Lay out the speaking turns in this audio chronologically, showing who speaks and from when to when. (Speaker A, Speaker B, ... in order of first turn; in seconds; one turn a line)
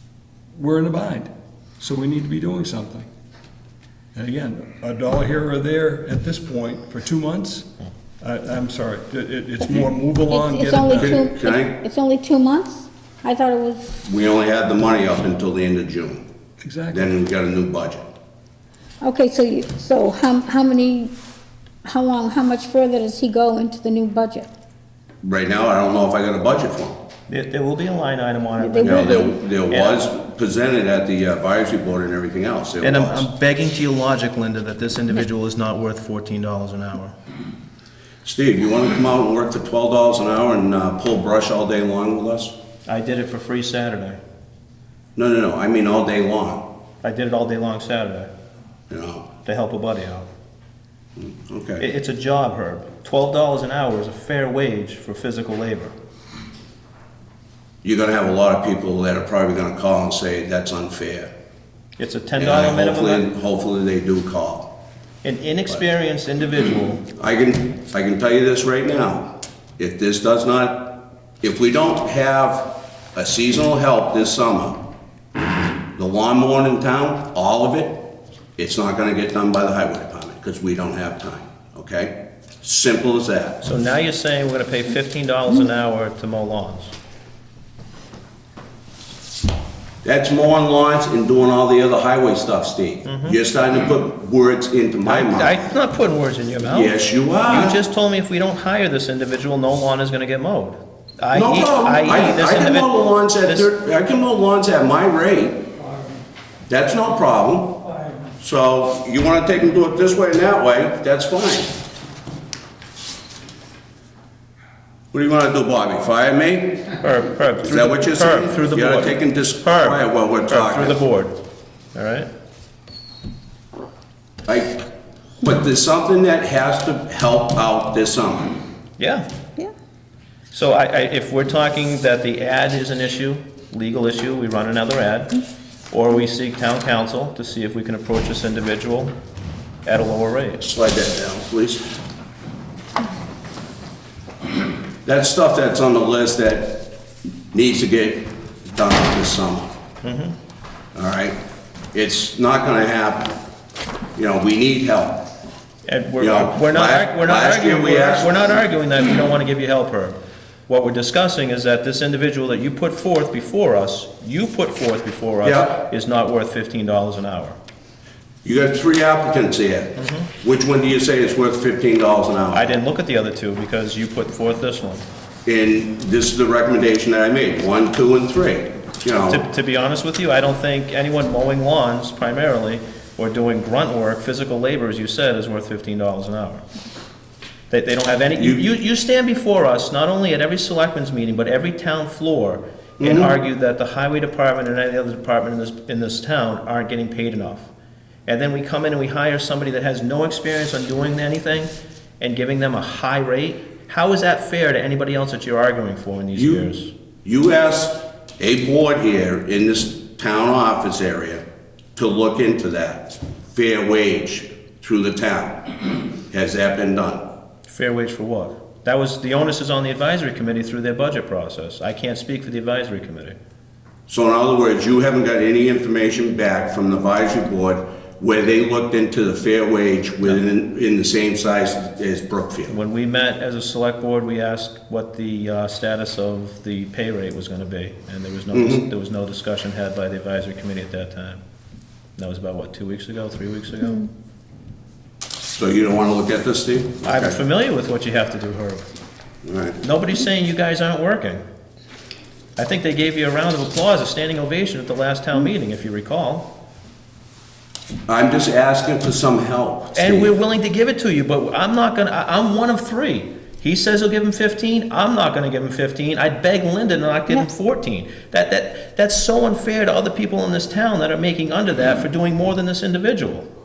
Speaker A: 0.5-3.1
Speaker A: 4.2-7.7
Speaker A: 8.2-11.3
Speaker B: 10.3-13.9
Speaker C: 10.9-11.8
Speaker C: 14.0-16.2
Speaker A: 16.6-17.1
Speaker C: 16.9-18.1
Speaker B: 19.0-21.1
Speaker B: 21.8-24.5
Speaker C: 25.2-27.0
Speaker D: 27.3-30.1
Speaker B: 28.6-29.3
Speaker C: 28.8-33.3
Speaker D: 32.8-37.1
Speaker C: 38.2-42.5
Speaker D: 42.9-44.2
Speaker C: 45.2-46.7
Speaker D: 47.0-48.3
Speaker C: 48.9-49.3
Speaker D: 49.4-50.3
Speaker C: 51.2-51.8
Speaker D: 51.8-56.0
Speaker C: 57.8-61.3
Speaker D: 62.0-63.3
Speaker C: 62.4-64.8
Speaker D: 65.2-67.0
Speaker C: 67.2-74.9
Speaker C: 76.0-83.6
Speaker D: 83.6-86.9
Speaker C: 90.0-95.5
Speaker D: 93.0-93.4
Speaker D: 95.0-103.7
Speaker C: 96.7-97.8
Speaker C: 101.3-105.7
Speaker C: 106.7-111.8
Speaker C: 115.1-117.0
Speaker D: 117.0-121.4
Speaker C: 117.6-121.0
Speaker D: 121.9-122.3
Speaker C: 124.5-124.9
Speaker C: 125.4-128.6
Speaker D: 129.0-129.2
Speaker D: 130.5-135.4
Speaker D: 135.9-139.2
Speaker D: 139.8-140.6
Speaker C: 140.6-141.9
Speaker C: 145.1-149.8
Speaker D: 150.0-150.3
Speaker C: 150.9-151.4
Speaker C: 151.9-153.4
Speaker C: 154.2-155.3
Speaker D: 155.9-160.2
Speaker C: 156.2-158.6
Speaker D: 160.7-167.6
Speaker C: 165.4-165.8
Speaker C: 168.4-172.8
Speaker D: 170.0-170.2
Speaker D: 172.5-175.1
Speaker C: 175.4-179.4
Speaker D: 179.3-186.6
Speaker D: 187.7-197.7
Speaker C: 188.4-188.6
Speaker C: 193.0-193.3
Speaker D: 198.3-206.9
Speaker C: 206.3-206.7
Speaker C: 207.2-211.4
Speaker C: 212.0-217.3
Speaker D: 217.7-223.4
Speaker C: 224.1-232.8
Speaker D: 232.7-241.4
Speaker C: 238.5-238.9
Speaker D: 242.2-244.1
Speaker C: 245.5-247.4
Speaker D: 247.1-248.9
Speaker C: 249.4-249.8
Speaker D: 249.8-251.4
Speaker D: 252.6-256.5
Speaker C: 258.1-260.3
Speaker D: 259.9-273.5